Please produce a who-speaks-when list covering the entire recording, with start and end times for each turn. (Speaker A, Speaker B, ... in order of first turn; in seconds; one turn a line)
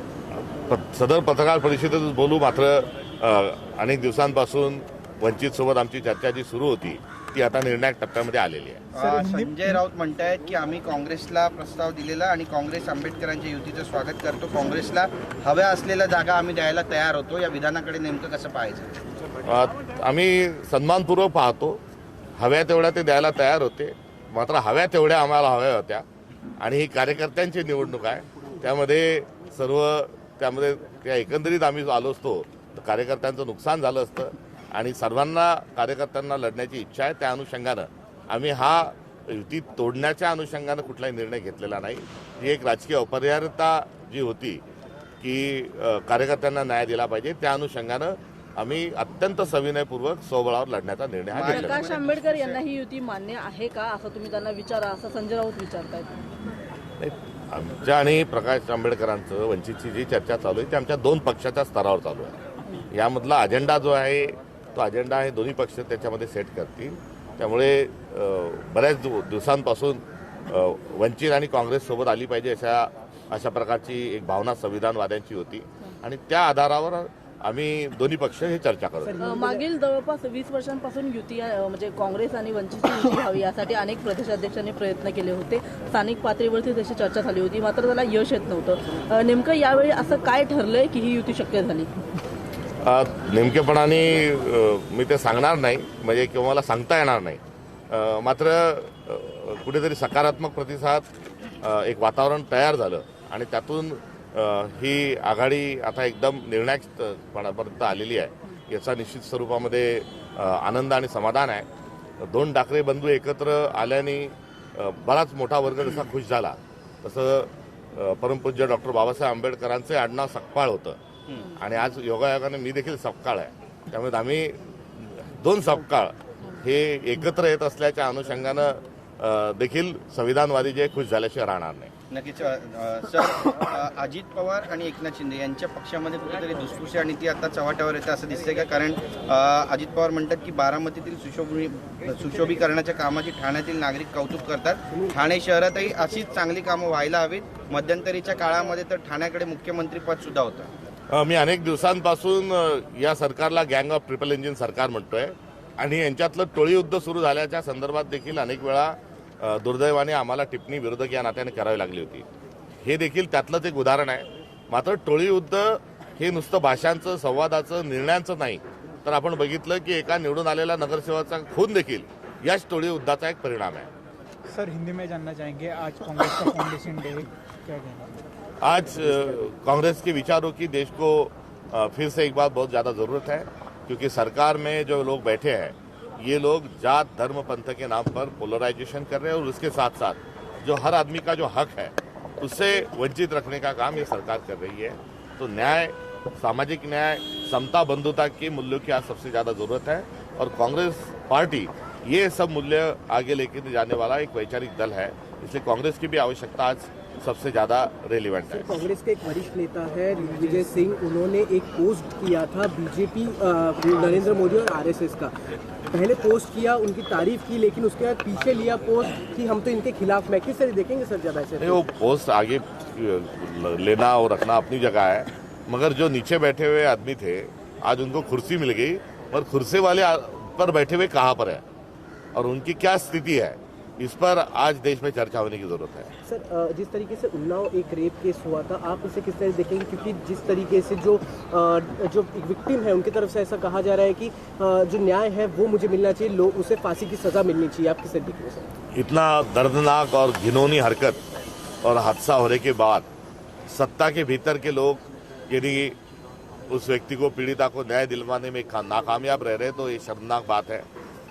Speaker A: 0.5-8.8
Speaker B: 8.9-18.9
Speaker C: 9.0-9.8
Speaker A: 19.4-21.8
Speaker A: 22.4-26.0
Speaker A: 26.6-44.6
Speaker A: 45.2-51.8
Speaker B: 51.3-52.6
Speaker D: 51.5-56.1
Speaker A: 57.0-62.4
Speaker A: 62.9-79.1
Speaker E: 79.0-79.7
Speaker D: 79.2-91.9
Speaker A: 92.8-101.0
Speaker A: 101.6-111.6
Speaker A: 112.2-121.0
Speaker A: 121.6-131.9
Speaker B: 132.1-150.7
Speaker A: 151.1-162.2
Speaker A: 162.8-173.9
Speaker C: 174.5-178.0
Speaker A: 178.6-208.8
Speaker E: 208.5-215.3
Speaker E: 215.9-221.8
Speaker A: 221.6-231.6
Speaker A: 232.3-236.1
Speaker E: 236.2-248.7
Speaker A: 248.9-251.2
Speaker A: 251.8-253.1
Speaker A: 253.7-256.0
Speaker A: 256.7-260.9